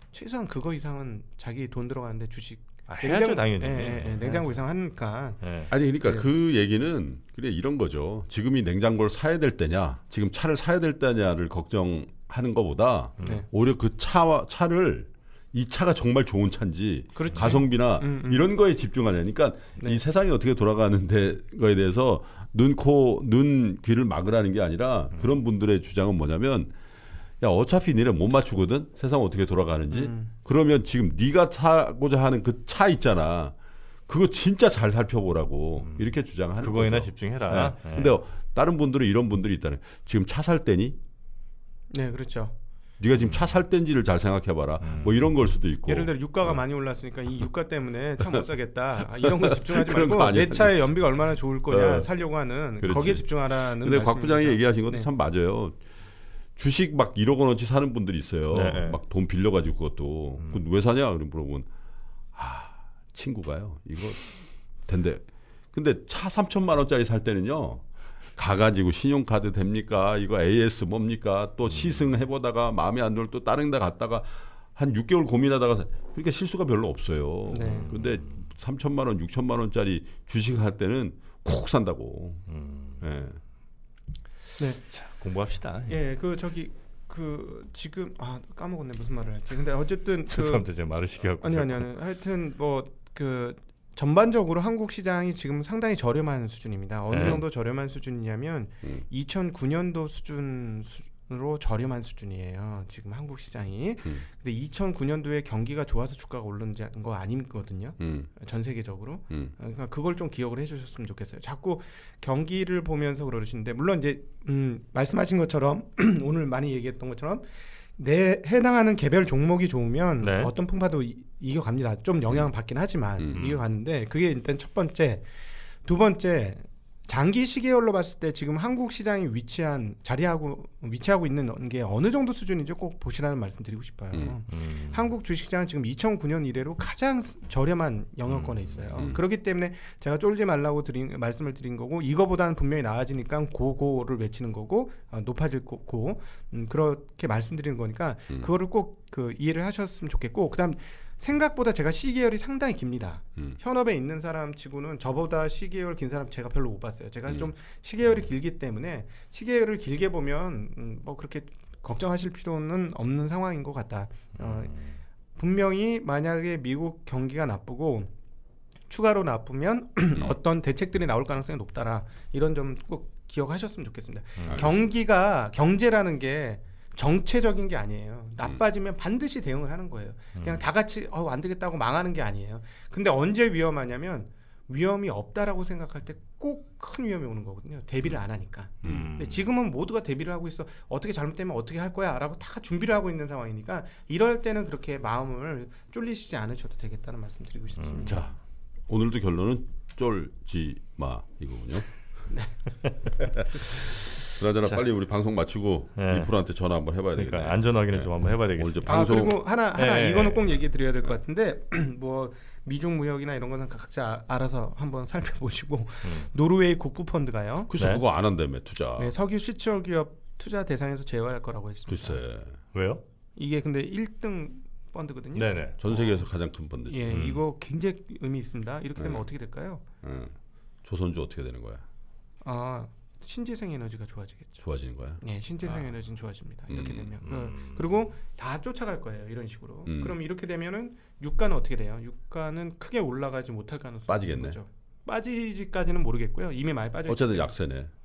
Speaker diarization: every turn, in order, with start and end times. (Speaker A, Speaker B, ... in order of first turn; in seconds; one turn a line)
Speaker A: 0.1-5.4
Speaker B: 2.9-4.5
Speaker B: 5.4-5.7
Speaker C: 5.7-26.7
Speaker B: 13.2-13.4
Speaker A: 17.1-18.4
Speaker C: 27.4-33.5
Speaker A: 29.9-30.3
Speaker C: 34.1-41.0
Speaker B: 35.8-36.1
Speaker B: 36.6-38.2
Speaker A: 41.9-42.5
Speaker C: 43.0-46.6
Speaker B: 44.8-45.2
Speaker A: 45.9-55.1
Speaker C: 49.2-51.0
Speaker C: 51.7-52.1
Speaker C: 52.8-55.8
Speaker C: 56.5-61.7
Speaker B: 58.5-59.0
Speaker C: 62.3-67.8
Speaker C: 68.3-82.5
Speaker A: 77.5-77.9
Speaker B: 77.6-78.4
Speaker B: 82.5-83.0
Speaker C: 83.0-83.4
Speaker A: 84.6-84.8
Speaker B: 84.9-86.0
Speaker A: 85.9-90.7
Speaker B: 90.3-91.9
Speaker A: 91.4-117.5
Speaker B: 97.1-97.4
Speaker C: 97.1-97.4
Speaker C: 108.0-108.3
Speaker A: 118.0-125.2
Speaker B: 120.2-120.5
Speaker C: 123.2-123.4
Speaker B: 123.3-123.6
Speaker A: 125.8-164.8
Speaker B: 134.5-135.1
Speaker B: 138.3-139.1
Speaker C: 157.3-157.5
Speaker B: 164.4-165.0
Speaker A: 165.3-168.1
Speaker A: 168.9-198.3
Speaker B: 174.4-174.7
Speaker C: 174.4-174.8
Speaker B: 180.3-180.6
Speaker C: 188.8-189.1
Speaker B: 188.8-189.5
Speaker B: 197.8-198.3
Speaker C: 198.9-201.9
Speaker C: 203.2-209.4
Speaker B: 206.0-206.3
Speaker B: 207.2-209.1
Speaker A: 208.8-217.7
Speaker B: 209.7-210.6
Speaker B: 216.0-216.3
Speaker C: 217.7-219.1
Speaker B: 217.8-218.0
Speaker A: 219.0-222.2
Speaker C: 221.9-222.6
Speaker B: 222.7-223.0
Speaker A: 223.3-226.2
Speaker B: 225.3-225.8
Speaker C: 225.8-227.2
Speaker A: 226.9-229.8
Speaker B: 227.1-227.4
Speaker C: 229.0-229.2
Speaker C: 230.0-231.8
Speaker A: 232.4-234.6
Speaker C: 234.6-235.8
Speaker A: 235.2-247.5
Speaker C: 236.7-237.2
Speaker B: 237.2-237.9
Speaker C: 239.8-240.2
Speaker C: 244.1-244.6
Speaker C: 247.1-247.9